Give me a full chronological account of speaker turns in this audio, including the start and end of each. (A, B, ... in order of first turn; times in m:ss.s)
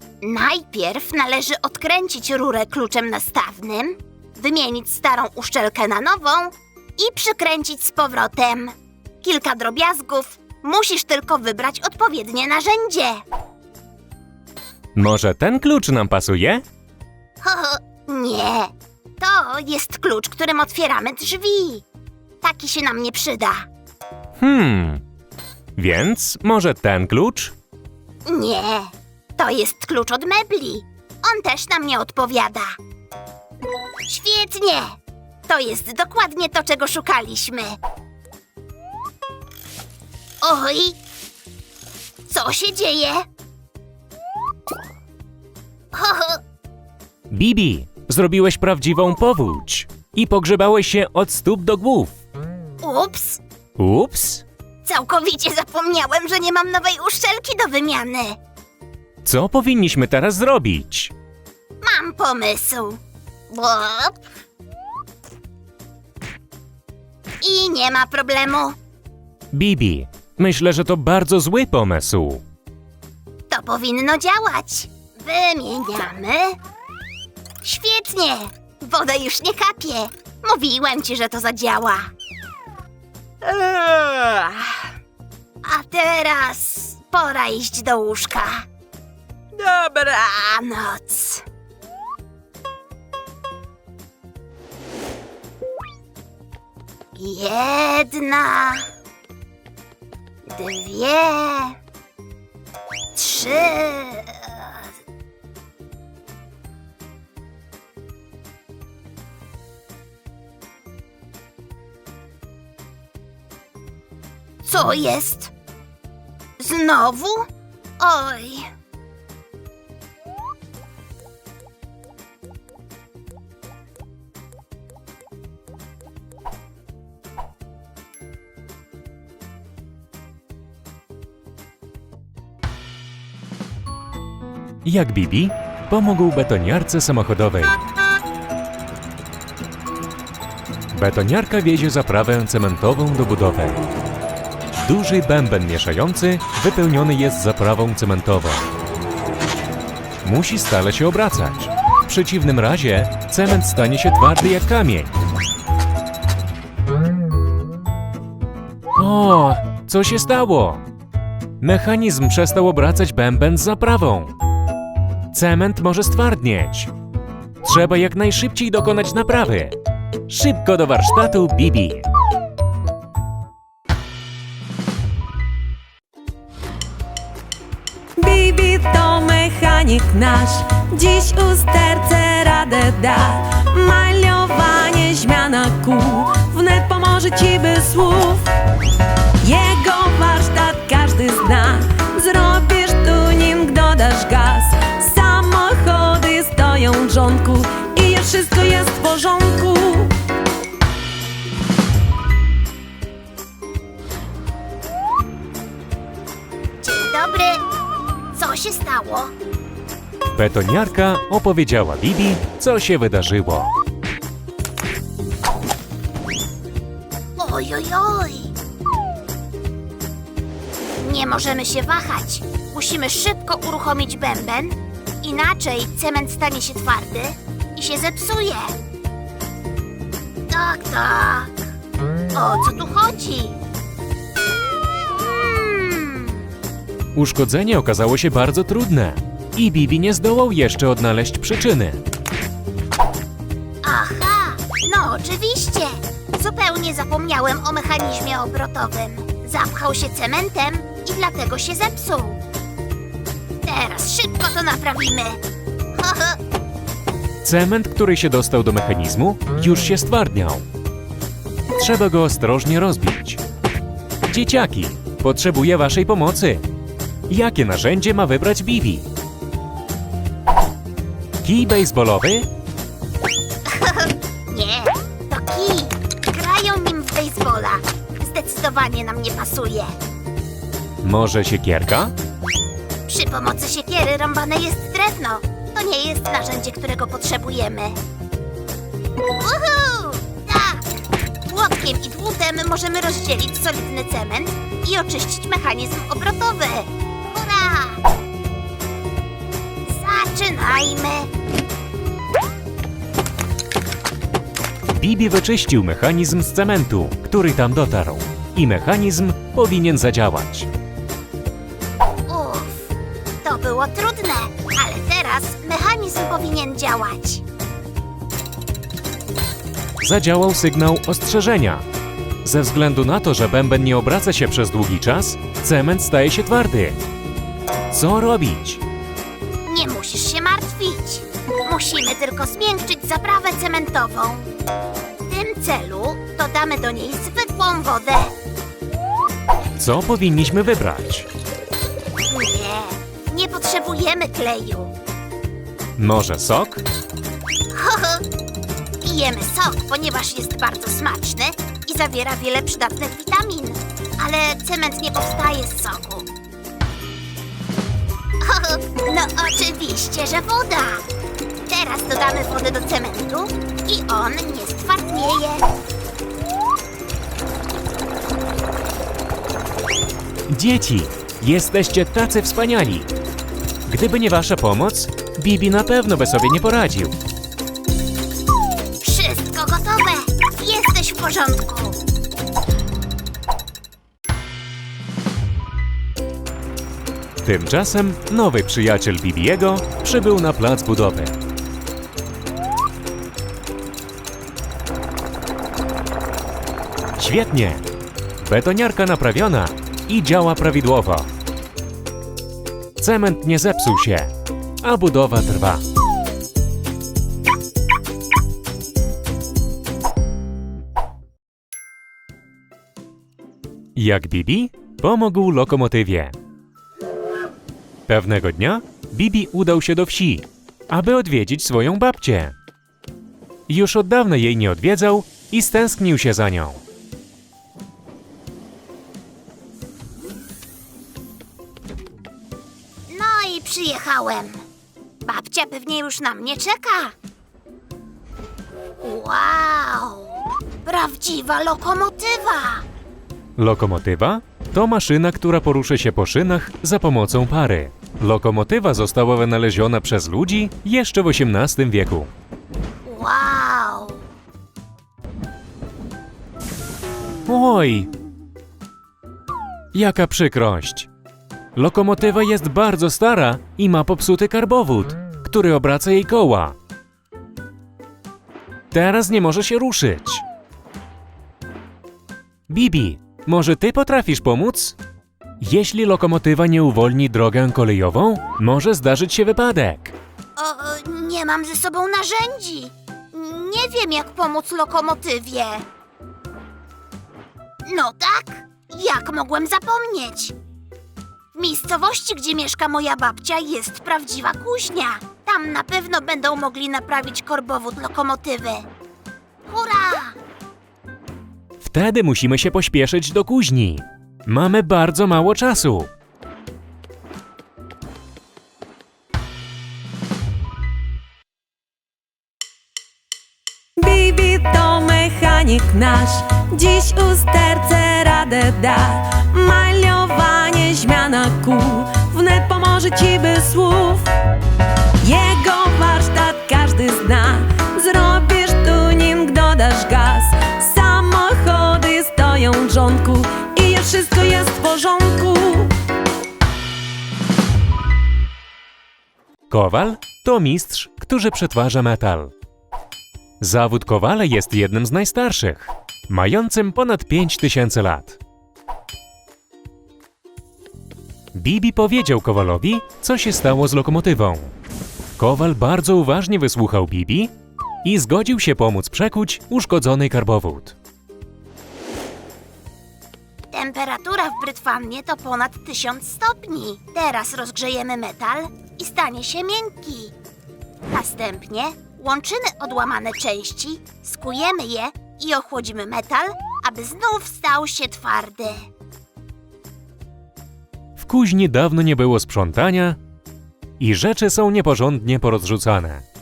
0:00.2-0:13.2 A
0:14.9-0:16.6 B
0:17.4-0:21.8 A
0:22.4-0:23.7 A
0:24.4-0:25.0 B
0:25.8-0:27.5 B
0:28.2-0:32.8 A
0:34.1-0:35.0 A
0:35.5-0:37.8 A
0:40.4-0:41.0 A
0:42.3-0:43.2 A
0:45.9-0:46.4 A
0:47.3-0:52.1 B
0:52.8-0:53.4 A
0:53.8-0:54.4 B
0:54.8-0:58.4 A
0:59.2-1:01.1 B
1:01.8-1:03.0 A
1:03.5-1:04.2 A
1:07.4-1:08.8 A
1:09.5-1:12.4 B
1:13.5-1:16.6 A
1:17.6-1:22.1 A
1:23.4-1:24.9 A
1:25.6-1:28.6 A
1:29.5-1:31.4 A
1:37.1-1:38.9 A
1:40.4-1:41.8 A
1:43.1-1:44.8 A
1:54.6-1:55.5 A
1:56.6-1:58.7 A
2:14.8-2:17.8 B
2:20.9-2:23.8 B
2:24.8-2:28.7 B
2:30.2-2:35.2 B
2:39.0-2:40.8 B
2:41.6-2:44.4 B
2:45.3-2:46.9 B
2:47.6-2:49.8 B
2:50.3-2:52.1 B
2:58.2-3:08.5 C
3:09.4-3:20.1 C
3:26.8-3:27.6 A
3:28.3-3:29.3 A
3:30.3-3:33.7 B
3:37.4-3:38.5 A
3:41.0-3:48.8 A
3:50.5-3:51.7 A
3:52.3-3:53.6 A
3:55.1-3:56.4 A
3:57.1-4:02.0 B
4:03.8-4:12.4 A
4:13.6-4:15.4 A
4:16.0-4:16.4 A
4:17.4-4:20.6 B
4:21.8-4:23.4 B
4:24.3-4:26.6 B
4:27.3-4:29.1 B
4:31.4-4:32.5 B
4:33.7-4:40.0 A
4:41.0-4:42.1 B
4:43.1-4:48.0 A
4:49.4-4:58.0 A
4:59.9-5:01.3 A
5:04.9-5:10.7 B
5:12.3-5:17.4 A
5:20.0-5:21.8 B
5:22.4-5:27.0 B
5:27.9-5:28.8 B
5:29.6-5:34.5 A
5:35.3-5:38.3 A
5:39.8-5:41.3 B
5:42.3-5:44.9 A
5:46.0-5:46.8 B
5:47.7-5:48.2 A
5:49.0-5:56.3 A
5:58.4-6:01.1 A
6:01.7-6:05.6 A
6:10.5-6:13.1 B
6:13.9-6:17.1 B
6:19.0-6:22.0 A
6:27.4-6:31.4 B
6:37.2-6:37.8 B
6:38.4-6:41.3 B
6:43.0-6:45.8 B
6:53.9-6:56.3 B
6:58.1-7:02.5 B
7:03.7-7:06.8 B
7:13.1-7:14.6 A
7:15.2-7:17.1 A
7:19.0-7:22.8 A
7:23.6-7:32.3 B
7:33.0-7:34.2 A
7:37.4-7:38.1 B
7:39.9-7:41.1 B
7:41.8-7:46.8 B
7:48.9-7:50.4 B
7:52.7-7:55.0 B
7:55.6-8:00.1 B
8:00.6-8:05.8 A
8:07.8-8:10.5 A
8:11.5-8:18.9 A
8:19.7-8:20.4 A
8:21.8-8:26.1 B
8:34.0-8:44.3 C
8:45.2-8:56.0 C
8:59.7-9:02.5 B
9:03.6-9:08.4 B
9:11.5-9:14.7 B
9:15.4-9:17.5 B
9:18.0-9:20.9 B
9:23.7-9:30.3 A
9:31.1-9:38.8 A
9:41.2-9:43.2 B
9:44.0-9:46.2 B